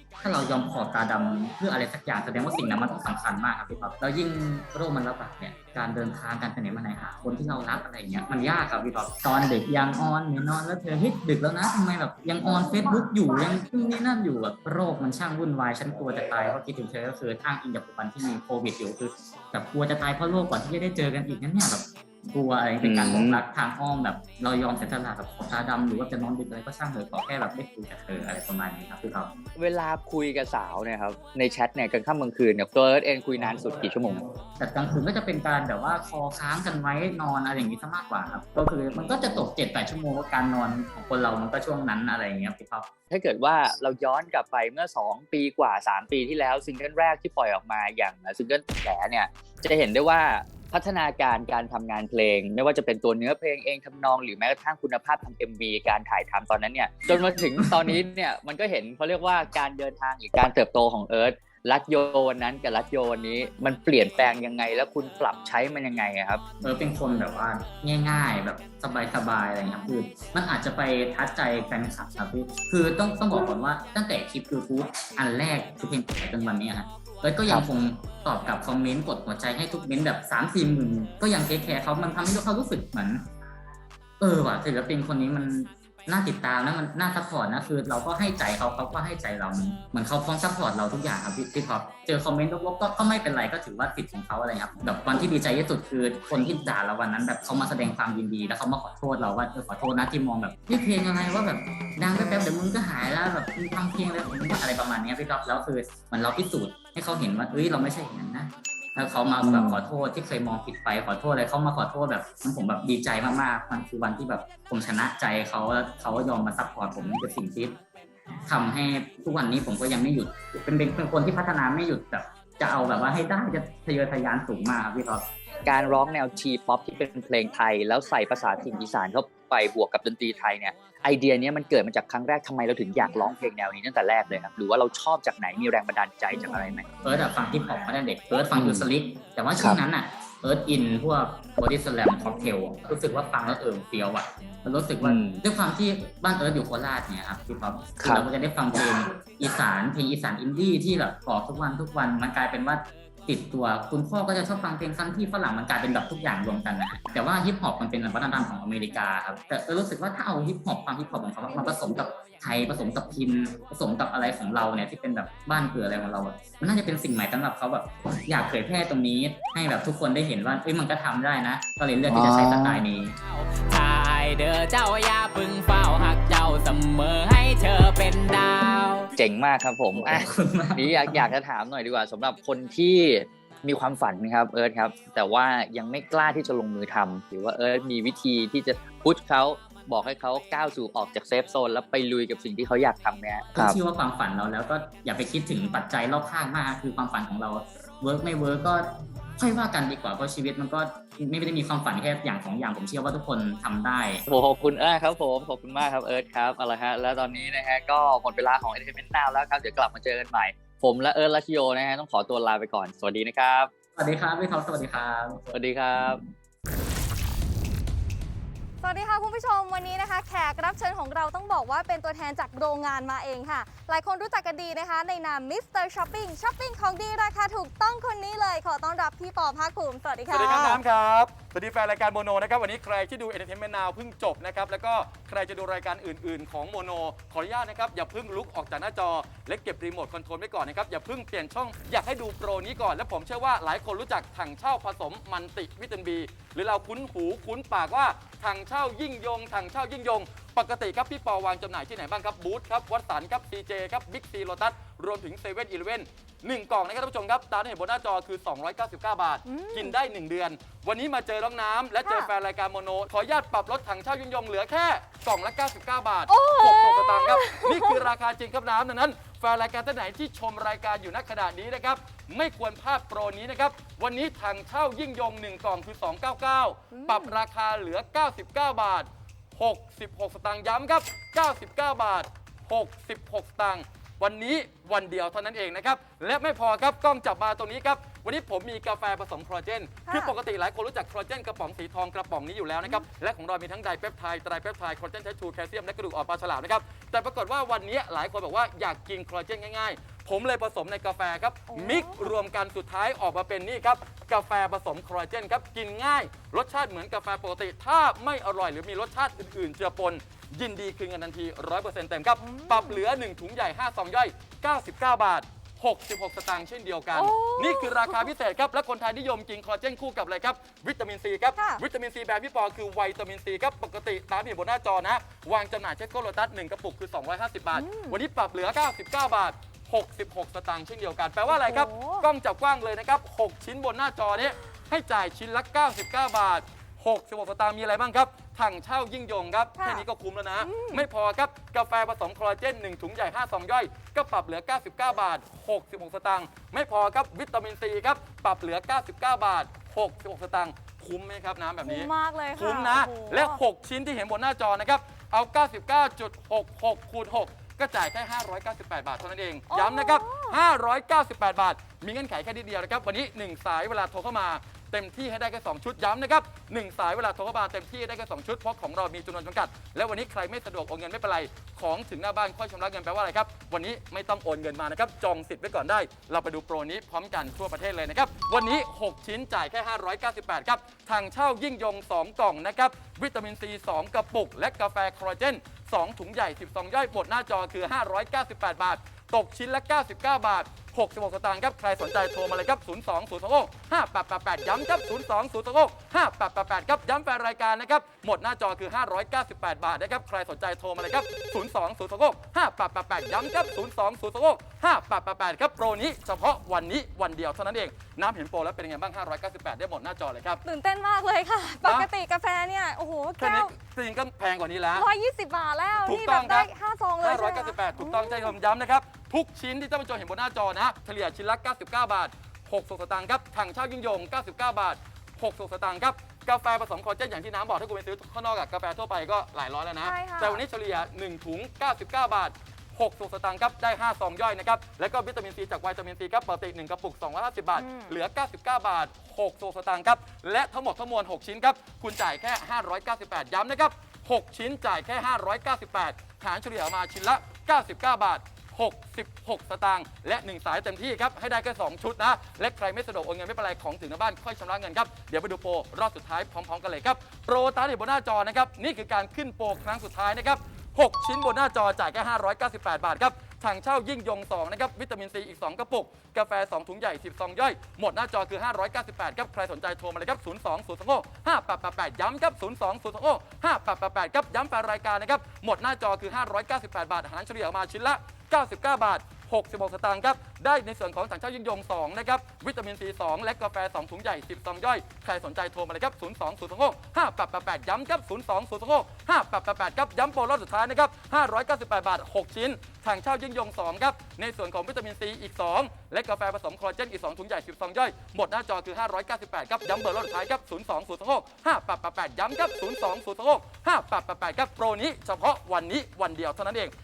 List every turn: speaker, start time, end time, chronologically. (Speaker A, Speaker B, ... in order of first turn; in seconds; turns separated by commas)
Speaker A: 0.2-29.3, Speaker B: 22.8-23.4, Speaker B: 29.6-34.2, Speaker A: 34.6-42.9, Speaker B: 43.1-66.4, Speaker A: 57.1-58.0, Speaker A: 66.6-83.2, Speaker A: 84.2-117.8, Speaker A: 118.5-125.2, Speaker B: 125.6-136.9, Speaker A: 136.9-173.2, Speaker B: 145.0-145.4, Speaker B: 148.0-148.3, Speaker B: 172.1-172.8, Speaker C: 173.2-179.1, Speaker B: 179.2-180.2, Speaker A: 179.9-181.3, Speaker B: 180.8-193.8, Speaker A: 193.5-198.9, Speaker A: 199.4-204.2, Speaker B: 204.3-213.7, Speaker A: 213.9-216.2, Speaker B: 215.5-216.2, Speaker D: 218.8-230.8, Speaker E: 230.3-410.6, Speaker D: 259.4-259.9, Speaker D: 262.0-262.3, Speaker D: 266.3-268.0, Speaker D: 276.9-277.3, Speaker D: 290.1-290.3, Speaker D: 301.7-302.3, Speaker D: 312.4-313.0, Speaker D: 317.1-318.2, Speaker D: 321.6-321.8, Speaker D: 327.7-328.2, Speaker D: 331.5-332.3, Speaker D: 339.8-340.0, Speaker D: 340.6-341.0, Speaker D: 351.8-353.6, Speaker D: 359.7-360.6, Speaker D: 410.6-413.7, Speaker E: 411.8-412.1, Speaker E: 413.4-415.1, Speaker D: 414.9-418.5, Speaker E: 415.9-506.9, Speaker D: 430.0-430.6, Speaker D: 437.7-438.1